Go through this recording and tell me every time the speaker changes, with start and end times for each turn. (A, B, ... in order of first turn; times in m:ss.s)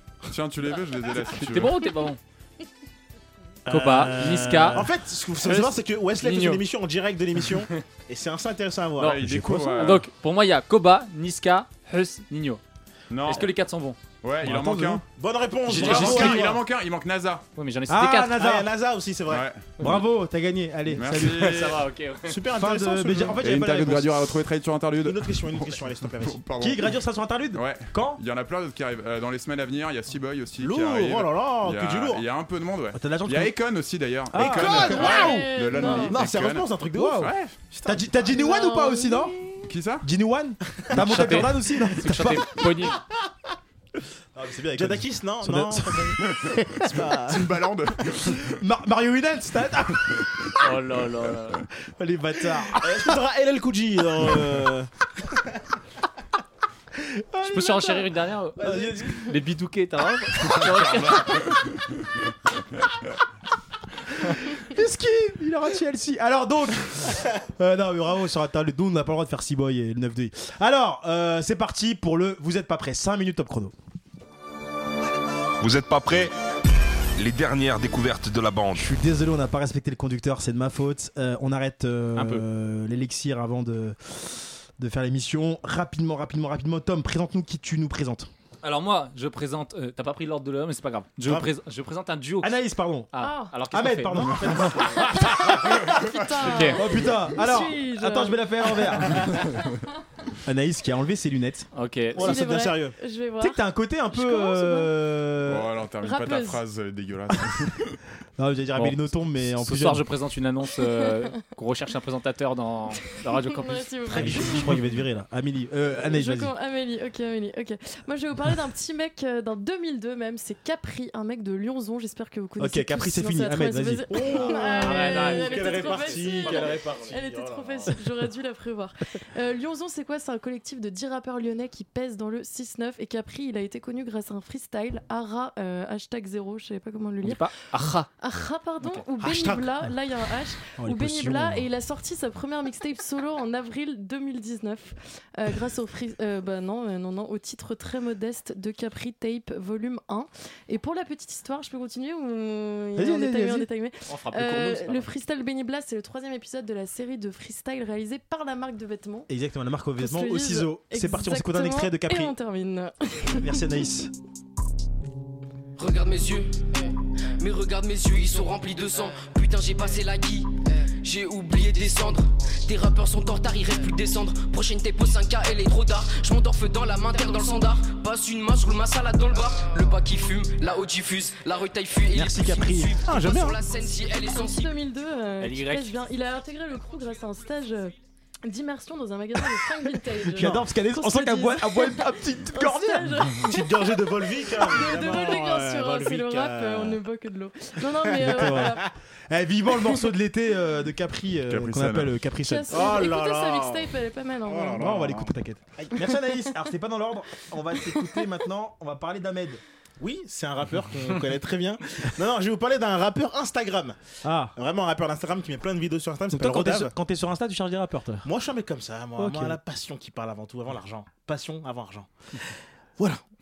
0:00.3-0:01.8 A
0:01.2-0:02.2 B
0:03.7-0:09.2 C
0:03.7-0:04.9 B
0:05.4-0:06.6 B
0:09.0-0:12.6 B
0:09.0-0:10.1 A
0:09.2-0:10.0 D
0:13.1-0:13.5 A
0:13.2-0:14.0 B
0:14.2-0:15.0 A
0:14.4-0:15.0 D
0:15.2-0:16.6 C
0:15.7-0:16.4 B
0:15.7-0:17.4 A
0:16.2-0:16.5 D
0:17.6-0:18.4 B
0:17.9-0:18.7 D
0:18.3-0:19.5 C
0:19.3-0:19.7 A
0:19.8-0:21.7 D
0:21.0-0:21.8 A
0:21.1-0:22.4 B
0:22.3-0:23.4 C
0:22.5-0:24.2 D
0:23.4-0:37.6 A
0:25.0-0:26.4 C
0:26.6-0:28.2 D
0:30.6-0:32.2 C
0:32.9-0:33.5 D
0:34.3-0:36.1 D
0:34.4-0:38.4 C
0:34.6-0:36.1 E
0:36.9-0:37.3 D
0:37.8-0:39.4 D
0:38.4-0:39.6 E
0:39.7-0:40.1 A
0:40.0-0:42.7 D
0:41.0-0:43.0 B
0:44.4-0:47.4 D
0:44.8-0:46.2 C
0:46.9-0:47.4 C
0:47.1-0:48.6 A
0:48.2-0:50.5 D
0:50.6-0:51.7 B
0:51.9-0:53.2 D
0:52.8-0:54.9 C
0:57.1-0:59.3 D
0:57.4-1:01.5 B
1:00.6-1:01.3 D
1:01.1-1:01.6 A
1:04.5-1:13.7 D
1:15.6-1:16.3 F
1:17.2-1:18.9 F
1:18.8-1:28.3 D
1:22.2-1:22.4 B
1:28.6-1:32.6 B
1:32.4-1:33.1 D
1:33.1-1:35.1 B
1:33.2-1:33.5 E
1:33.7-1:35.9 D
1:35.0-1:39.4 E
1:36.4-1:37.2 B
1:36.7-1:39.4 D
1:40.4-1:41.7 D
1:41.7-1:42.4 B
1:42.2-1:42.9 C
1:42.2-1:43.6 E
1:42.2-1:42.7 D
1:43.4-1:45.7 D
1:44.1-1:44.9 E
1:45.4-1:48.0 A
1:46.0-1:46.6 E
1:48.4-1:50.1 D
1:48.8-1:54.8 B
1:53.5-1:54.8 E
1:54.1-1:56.5 D
1:56.0-2:17.5 E
2:02.6-2:04.1 D
2:04.1-2:08.0 C
2:04.2-2:06.8 B
2:17.2-2:18.1 B
2:18.2-2:39.3 E
2:19.2-2:19.7 C
2:20.8-2:21.7 D
2:33.0-2:33.7 D
2:34.1-2:35.1 B
2:39.3-2:42.4 D
2:40.0-2:43.7 E
2:43.3-2:44.1 D
2:45.8-2:46.9 G
2:47.4-3:04.8 G
3:02.1-3:03.0 D
3:03.0-3:03.6 C
3:04.2-3:13.9 E
3:05.4-3:06.0 B
3:10.2-3:13.4 D
3:13.4-3:17.0 C
3:14.5-3:18.9 E
3:18.0-3:18.8 C
3:18.2-3:23.0 D
3:21.5-3:22.2 A
3:22.5-3:24.8 E
3:22.7-3:26.0 C
3:24.8-3:29.6 D
3:30.0-3:34.0 C
3:34.2-3:34.5 D
3:34.6-3:36.9 C
3:36.3-3:38.3 D
3:38.2-3:42.1 C
3:39.2-3:39.6 D